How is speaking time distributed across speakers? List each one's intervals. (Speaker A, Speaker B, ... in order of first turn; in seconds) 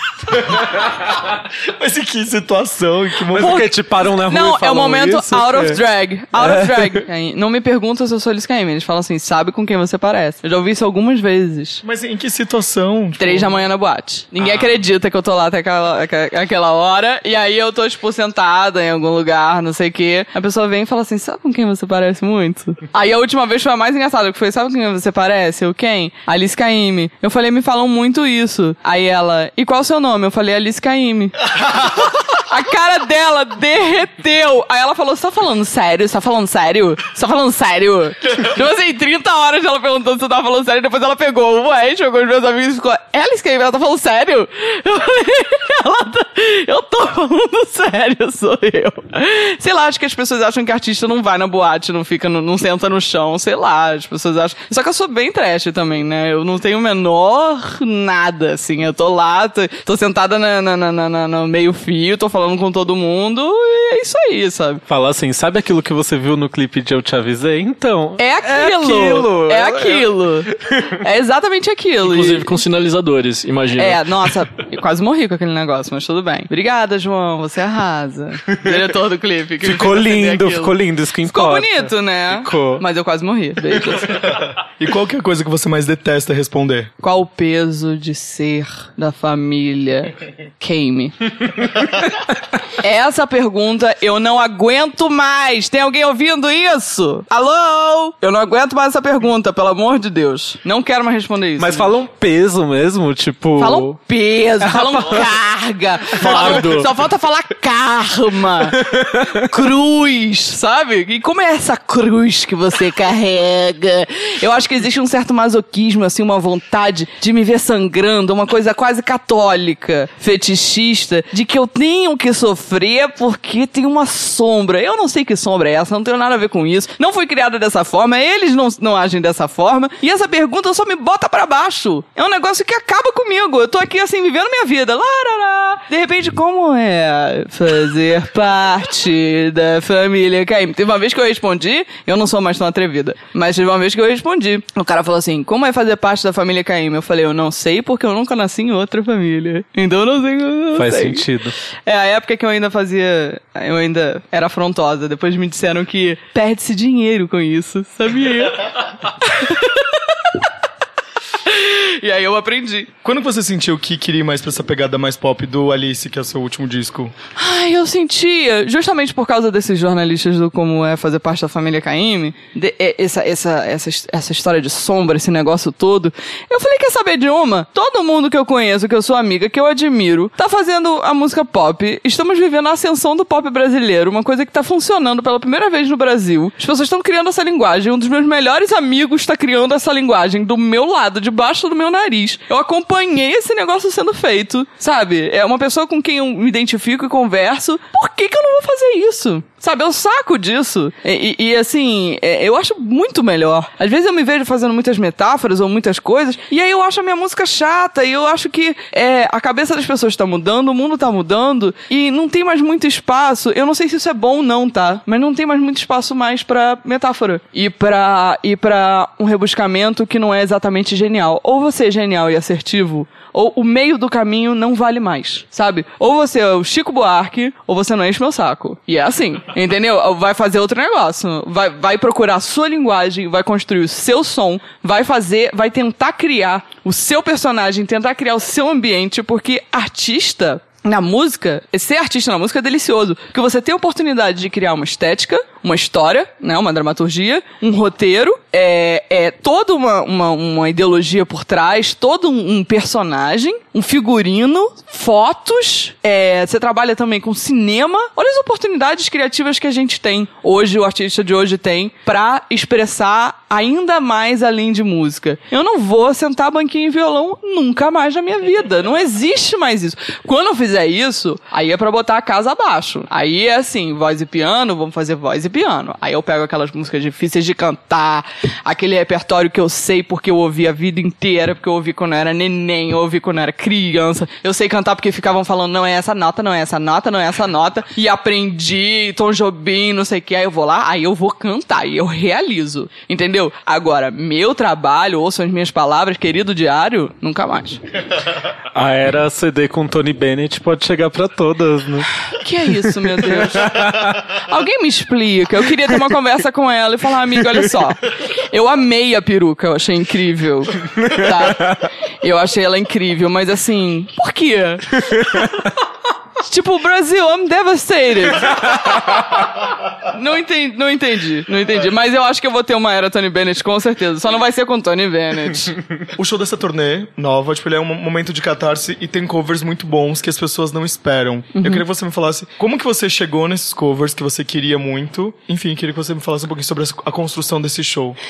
Speaker A: 0.2-3.7, 11.8-13.6, 84.8-86.9, 106.3-106.7, 163.0-167.1, 326.1-338.2
Speaker B: 3.3-5.8, 6.3-7.0, 14.4-14.7, 64.9-71.0, 79.6-82.8, 101.6-103.9, 104.7-105.3, 108.8-109.3, 150.7-151.5, 298.7-302.1, 303.2-304.2, 311.0-311.8, 315.2-315.5, 318.8-319.2
Speaker C: 4.2-11.8, 13.2-64.8, 68.2-72.6, 73.8-80.7, 81.3-84.4, 87.0-91.3, 92.8-101.9, 103.6-151.3, 151.8-159.9, 161.4-162.9, 167.3-297.8, 302.4-303.9, 304.4-315.4, 316.4-319.1, 320.0-325.7, 331.5-331.8
Speaker D: 72.0-74.3, 106.2-106.9